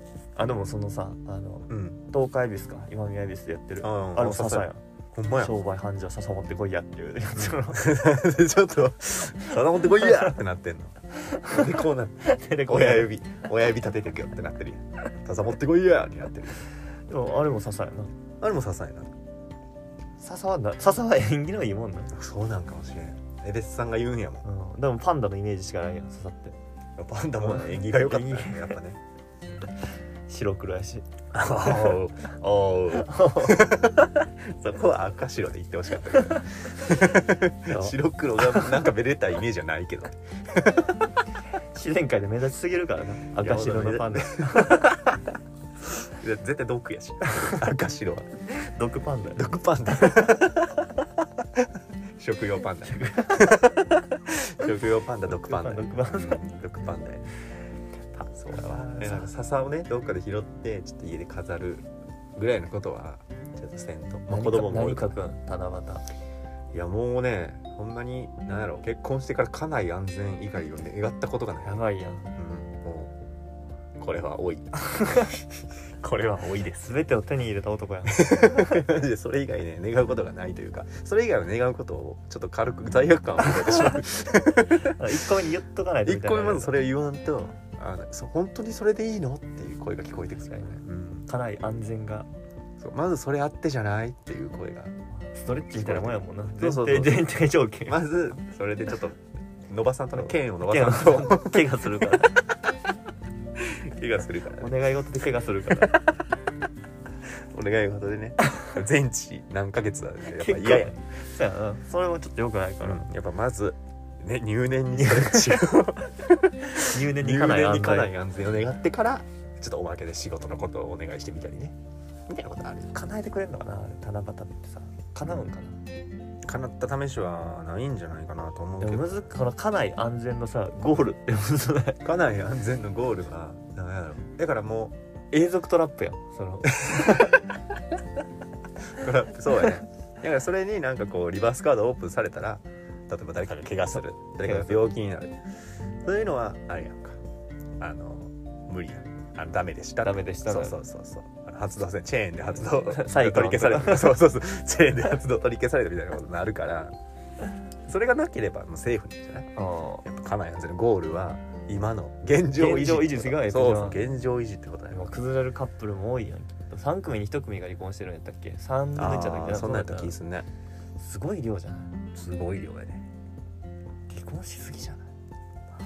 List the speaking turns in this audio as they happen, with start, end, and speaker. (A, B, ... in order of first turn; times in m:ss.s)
0:00.4-0:04.8 A
0:01.7-0:02.0 B
0:03.8-0:05.5 B
0:05.3-0:07.9 A
0:07.4-0:16.7 B
0:10.0-0:10.3 A
0:11.1-0:13.1 A
0:17.1-0:18.1 A
0:18.4-0:19.1 B
0:20.2-0:22.1 A
0:22.1-0:24.4 B
0:24.4-0:26.6 A
0:27.0-0:29.0 B
0:27.4-0:28.8 A
0:30.3-0:31.1 A
0:31.3-0:40.9 B
0:31.6-0:32.0 A
0:32.9-0:33.8 A
0:37.7-0:38.7 A
0:41.7-0:45.0 A
0:43.4-0:45.0 B
0:46.0-0:48.3 B
0:47.2-0:47.6 A
0:48.5-0:49.5 A
0:49.4-0:50.9 B
0:51.5-0:57.3 B
0:52.8-0:53.7 A
0:55.3-0:56.4 A
0:58.1-1:05.1 B
0:58.5-0:59.3 A
1:04.3-1:06.0 A
1:06.7-1:11.8 B
1:11.6-1:12.2 A
1:12.4-1:13.1 B
1:14.0-1:15.4 B
1:14.8-1:15.4 A
1:16.0-1:18.8 A
1:16.0-1:16.9 B
1:18.1-1:25.1 B
1:23.6-1:24.0 A
1:24.7-1:26.8 A
1:26.0-1:31.2 B
1:31.3-1:32.3 A
1:32.8-1:34.9 B
1:35.3-1:38.0 A
1:35.7-1:37.3 B
1:37.9-1:42.4 B
1:40.2-1:42.4 A
1:43.6-1:44.7 B
1:44.6-1:46.0 A
1:47.2-1:50.9 B
1:50.2-1:53.0 A
1:52.8-2:01.8 B
1:55.0-1:55.6 A
1:56.7-1:58.1 A
2:02.3-2:03.0 B
2:02.9-2:05.8 A
2:06.4-2:09.2 B
2:08.8-2:12.0 A
2:12.0-2:15.0 B
2:15.3-2:17.4 A
2:16.8-2:17.3 B
2:18.9-2:25.4 B
2:23.9-2:24.9 A
2:26.0-2:27.2 B
2:27.8-2:36.9 B
2:30.0-2:30.8 A
2:32.7-2:34.2 A
2:37.8-2:39.5 B
2:39.6-2:40.0 A
2:40.0-2:45.2 B
2:42.6-2:44.0 A
2:44.9-2:50.1 A
2:49.0-2:50.5 B
2:51.0-2:52.0 A
2:52.1-2:53.1 B
2:54.1-2:55.1 A